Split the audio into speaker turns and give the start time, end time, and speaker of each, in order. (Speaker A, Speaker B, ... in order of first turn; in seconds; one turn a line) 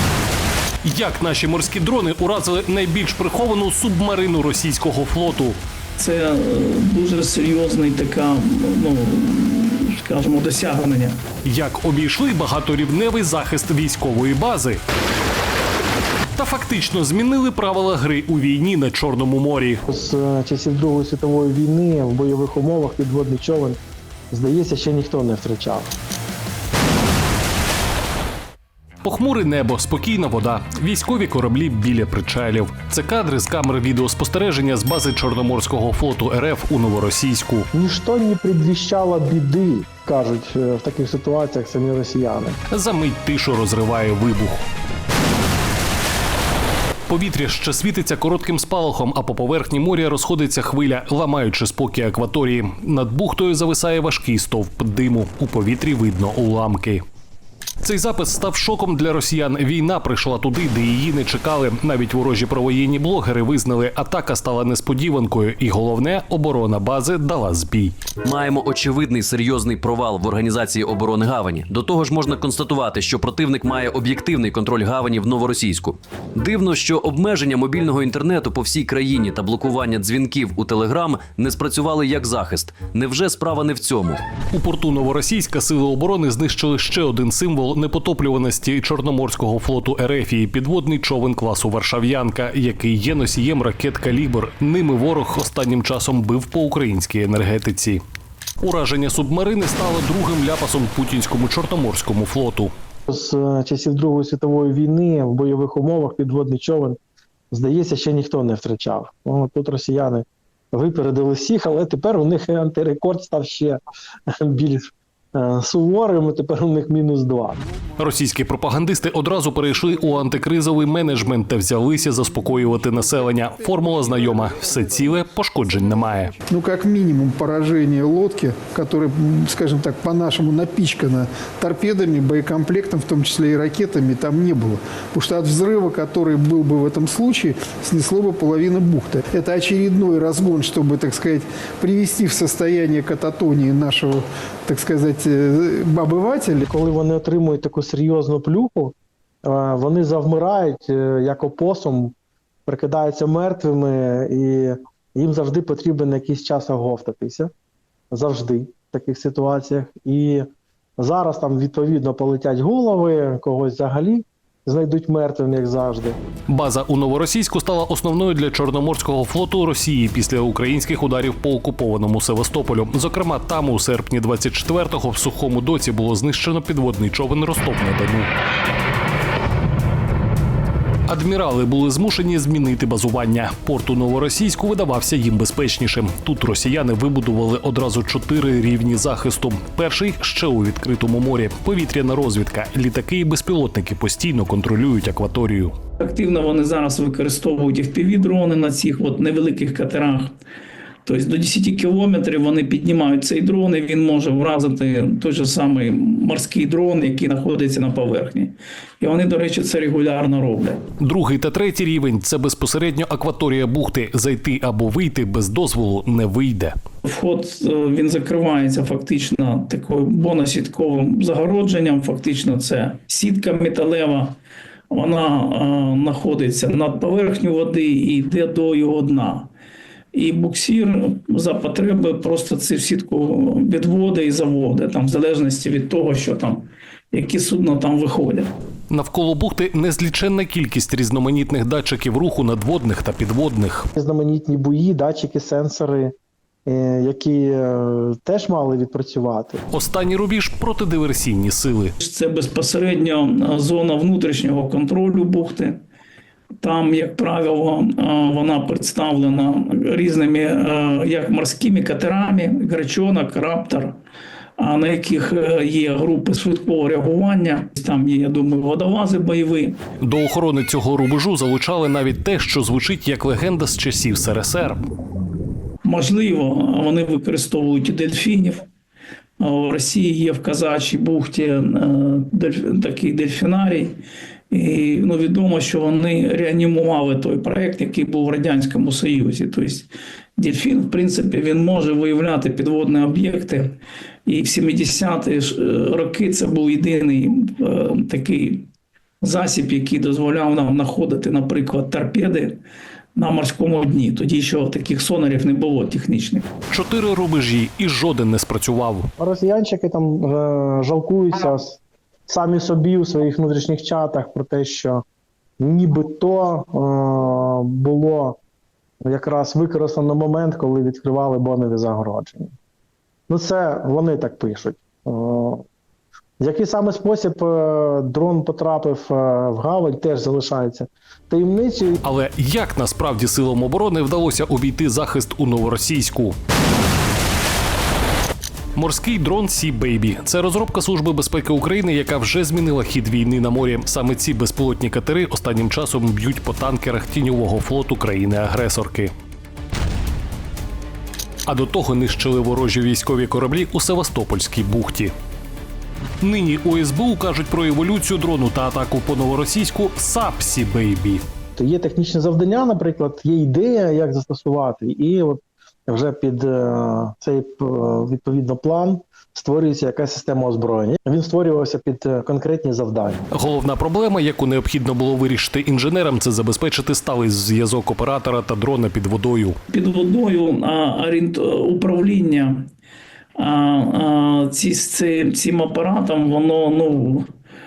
Speaker A: 0.8-5.6
Speaker B: 6.0-11.2
Speaker A: 11.4-14.8
Speaker A: 16.4-19.8
Speaker C: 19.9-23.8
Speaker C: 24.3-25.9
Speaker A: 29.0-37.7
Speaker C: 37.7-42.6
Speaker A: 42.7-44.6
Speaker A: 47.1-57.0
Speaker A: 57.8-68.1
Speaker D: 68.2-84.2
Speaker A: 84.5-98.0
Speaker A: 98.6-102.7
Speaker C: 103.1-107.0
Speaker C: 107.5-113.8
Speaker C: 114.4-117.6
Speaker A: 118.0-126.3
Speaker E: 123.2-146.6
Speaker C: 146.7-152.1
Speaker C: 152.7-157.5
Speaker C: 158.1-160.4
Speaker C: 161.0-166.2
Speaker A: 166.5-178.3
Speaker A: 181.1-195.7
Speaker B: 196.0-200.3
Speaker B: 201.1-210.8
Speaker A: 211.0-216.7
Speaker B: 217.0-224.4
Speaker B: 224.9-229.5
Speaker B: 230.1-238.5
Speaker A: 238.9-243.9
Speaker C: 244.0-246.1
Speaker C: 246.7-249.6
Speaker A: 249.7-251.9
Speaker B: 252.0-255.8
Speaker B: 256.6-264.0
Speaker B: 264.6-269.8
Speaker A: 270.0-274.8
Speaker B: 275.8-278.7
Speaker B: 279.4-298.7
Speaker B: 299.2-302.6
Speaker B: 303.1-306.5
Speaker A: 306.7-309.1
Speaker C: 309.2-315.0
Speaker C: 315.6-318.4
Speaker C: 319.0-322.5
Speaker C: 323.3-325.6
Speaker C: 326.4-331.9
Speaker A: 332.0-336.4
Speaker A: 338.8-349.1
Speaker A: 351.4-355.1
Speaker A: 356.2-361.2
Speaker C: 361.6-373.2
Speaker A: 373.3-379.6
Speaker B: 379.7-382.7
Speaker B: 383.4-387.3